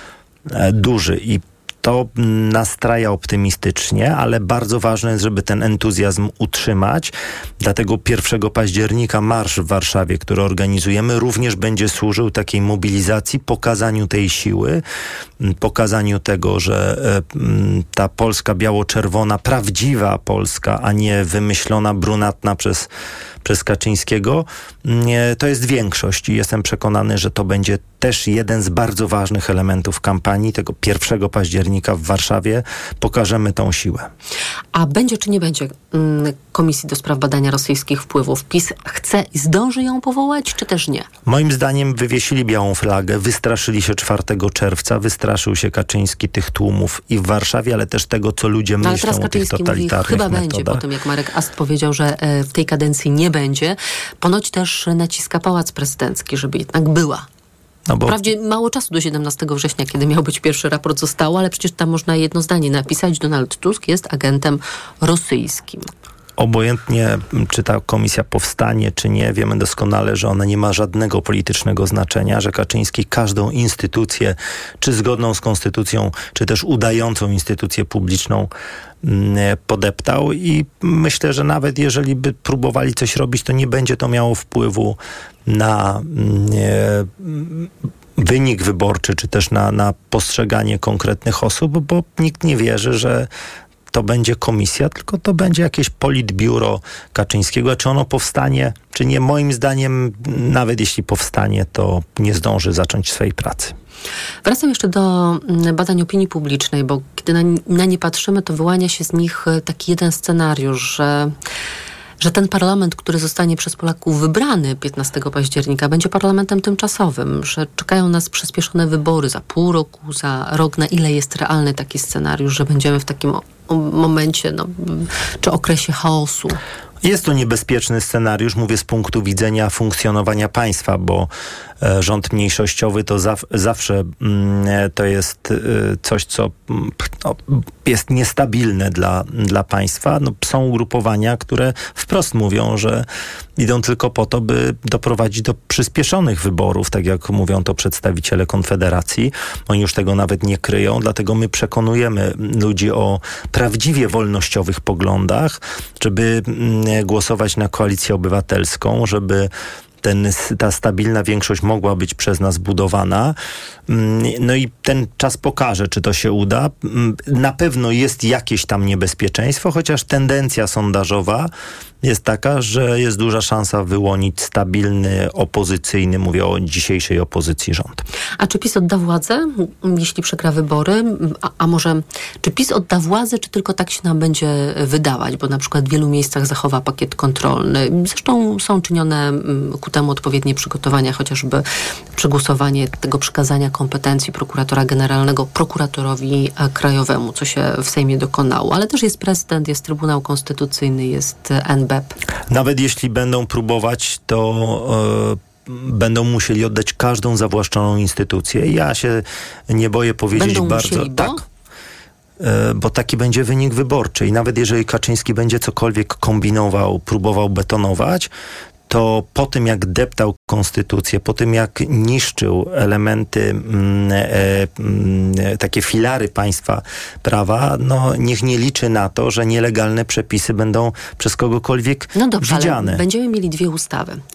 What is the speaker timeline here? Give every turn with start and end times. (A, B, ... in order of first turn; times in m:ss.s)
0:00.5-0:07.1 A
0:07.6-0:14.8 A
0:15.4-0:22.9 A
0:23.4-0:34.1 A
0:34.7-0:41.1 B
0:41.2-0:50.8 A
0:48.8-0:57.2 B
0:57.9-0:58.2 A
0:58.1-1:05.9 B
1:06.4-1:18.5 A
1:19.0-1:33.3 A
1:33.9-1:43.7 A
1:44.4-1:51.3 B
1:52.2-2:06.6 B
2:07.0-2:11.3 A
2:11.8-2:23.0 A
2:23.6-2:39.5 A
2:40.0-2:43.4 A
2:43.9-2:51.5 A
2:52.0-2:58.0 A
2:58.4-3:11.6 B
3:12.2-3:22.1 B
3:22.5-3:31.4 A
3:30.3-3:31.4 B
3:32.4-3:38.3 A
3:38.9-3:53.0 A
3:52.2-3:54.2 B